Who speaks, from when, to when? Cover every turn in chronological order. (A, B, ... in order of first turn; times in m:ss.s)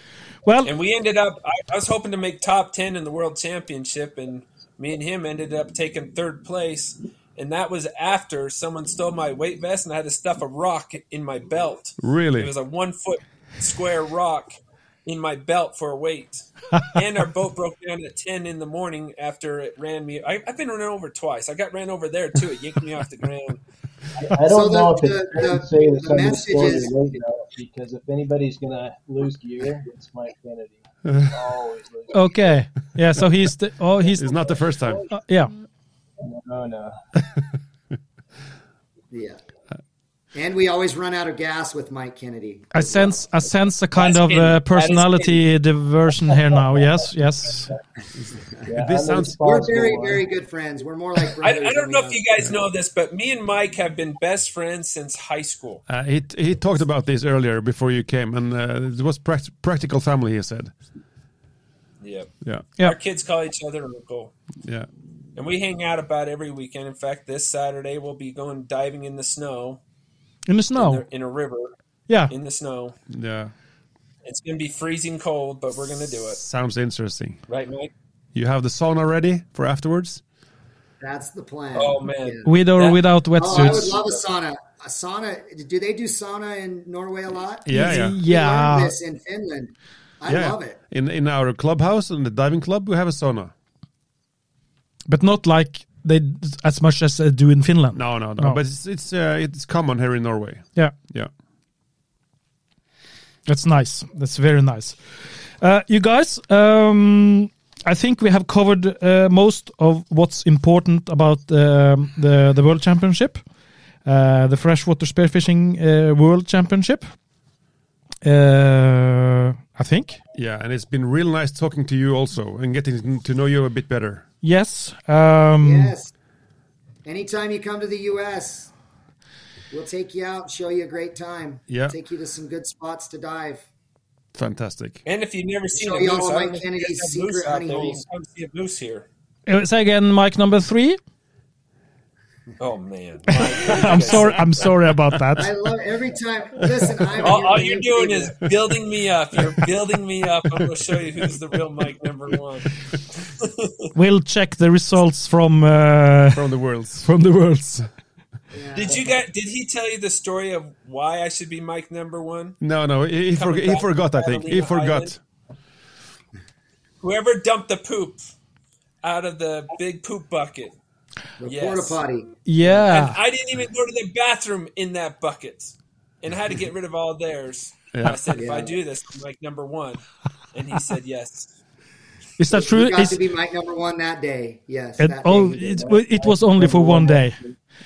0:00.4-0:00.7 A
0:00.6-0:14.5 B
0:12.0-0:12.5 C
0:15.0-0:23.6 B
0:24.2-0:32.2 D
0:24.4-0:27.0 E
0:31.0-0:31.4 C
0:32.1-0:34.4 A
0:34.2-0:35.1 C
0:35.1-0:35.5 A
0:36.2-0:37.0 D
0:37.2-0:37.6 C
0:39.1-0:39.4 E
0:40.3-0:43.2 E
0:42.7-0:47.7 A
0:44.0-0:45.4 B
0:48.2-0:49.4 C
0:48.7-0:50.2 D
0:49.4-0:52.2 E
0:51.4-0:55.8 B
0:55.9-1:00.7 C
1:02.0-1:04.4 B
1:02.4-1:02.7 C
1:04.6-1:04.9 C
1:05.4-1:09.8 B
1:10.5-1:11.0 A
1:10.7-1:11.7 B
1:12.1-1:12.3 A
1:12.3-1:13.0 B
1:13.1-1:13.5 C
1:14.2-1:16.4 B
1:16.3-1:17.4 C
1:17.5-1:17.9 B
1:18.3-1:20.2 C
1:21.0-1:22.4 E
1:21.7-1:23.9 B
1:22.4-1:24.0 A
1:23.4-1:30.8 E
1:27.6-1:28.2 C
1:27.7-1:28.9 A
1:30.3-1:33.5 C
1:35.1-1:38.6 A
1:37.9-1:41.3 C
1:43.4-1:45.0 A
1:45.6-1:53.4 A
1:54.0-1:57.1 A
1:58.2-2:00.2 A
2:00.3-2:04.2 C
2:04.4-2:06.0 A
2:05.6-2:06.1 E
2:07.0-2:08.7 E
2:09.7-2:13.7 E
2:11.7-2:12.0 C
2:14.3-2:15.0 C
2:15.0-2:19.1 B
2:15.7-2:18.0 E
2:19.5-2:21.0 A
2:22.6-2:24.5 B
2:23.3-2:25.5 A
2:25.4-2:28.4 E
2:27.2-2:33.8 B
2:33.9-2:36.5 A
2:36.3-2:37.1 C
2:37.0-2:37.9 A
2:38.5-2:39.2 E
2:38.7-2:42.6 B
2:42.6-2:45.2 C
2:43.3-2:45.1 B
2:47.0-2:48.2 B
2:49.0-2:50.8 B
2:51.4-2:52.3 E
2:51.4-2:52.0 B
2:52.4-2:53.2 A
2:52.6-3:01.5 B
2:57.9-2:58.3 C
2:58.4-2:58.7 E
3:02.4-3:03.2 A
3:02.5-3:05.9 E
3:05.0-3:07.4 A
3:05.8-3:07.5 D